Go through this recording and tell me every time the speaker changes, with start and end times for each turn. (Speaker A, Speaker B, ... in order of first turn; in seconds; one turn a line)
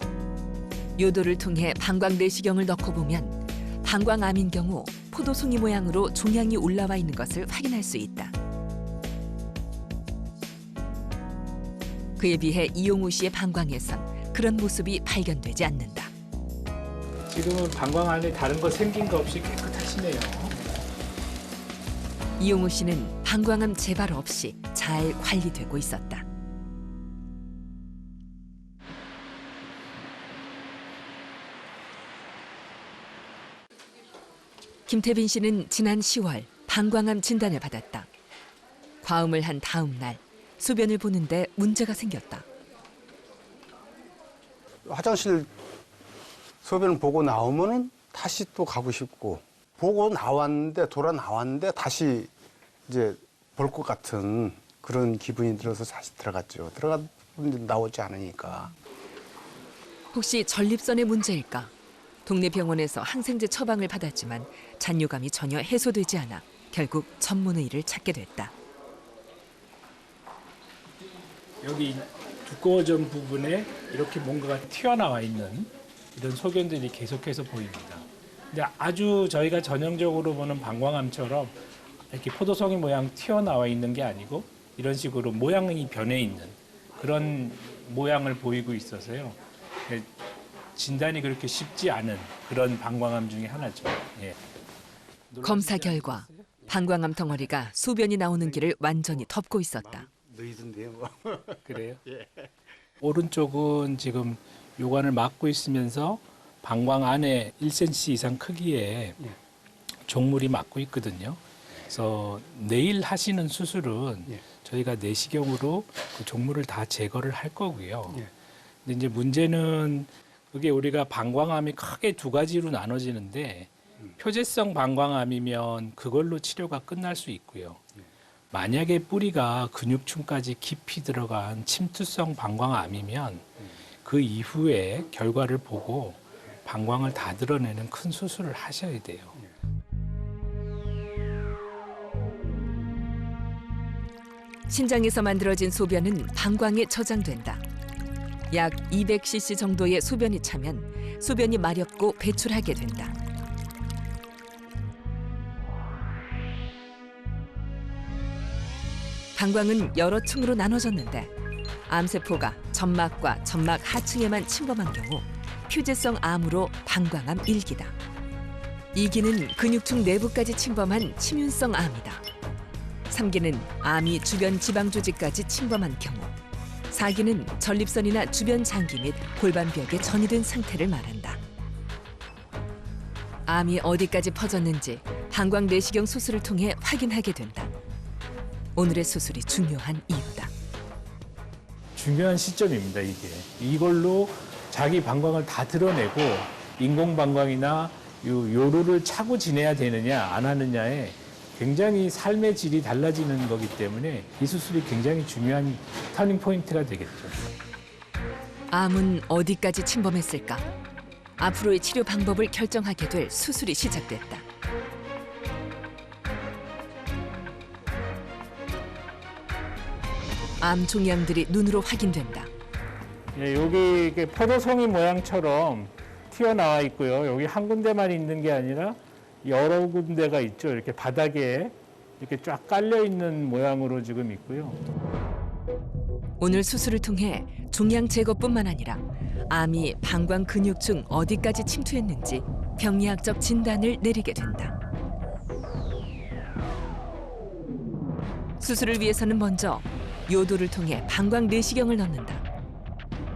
Speaker A: 1.0-8.3
Speaker A: 12.2-16.1
Speaker B: 17.3-20.5
Speaker A: 22.4-26.2
Speaker A: 34.9-38.1
Speaker A: 39.0-42.5
Speaker C: 44.9-45.5
Speaker C: 46.6-52.3
Speaker C: 52.9-58.7
Speaker A: 60.1-61.7
Speaker A: 62.2-68.5
Speaker B: 71.6-81.5
Speaker B: 82.1-90.1
Speaker B: 90.8-94.4
Speaker B: 95.3-96.5
Speaker A: 95.4-100.1
Speaker C: 98.4-99.2
Speaker C: 99.8-102.5
Speaker B: 101.6-102.0
Speaker B: 103.0-109.2
Speaker B: 110.1-118.3
Speaker B: 118.8-127.9
Speaker B: 128.5-139.4
Speaker A: 144.7-147.6
Speaker A: 148.5-153.1
Speaker A: 159.3-161.3
Speaker A: 161.9-167.9
Speaker A: 168.9-172.2
Speaker A: 173.1-176.3
Speaker A: 176.9-181.4
Speaker A: 183.5-187.7
Speaker A: 188.8-190.5
Speaker B: 191.9-207.4
Speaker A: 208.7-210.7
Speaker A: 211.4-214.4
Speaker A: 220.6-222.5
Speaker B: 223.3-234.8
Speaker A: 236.4-244.7
Speaker A: 248.6-252.4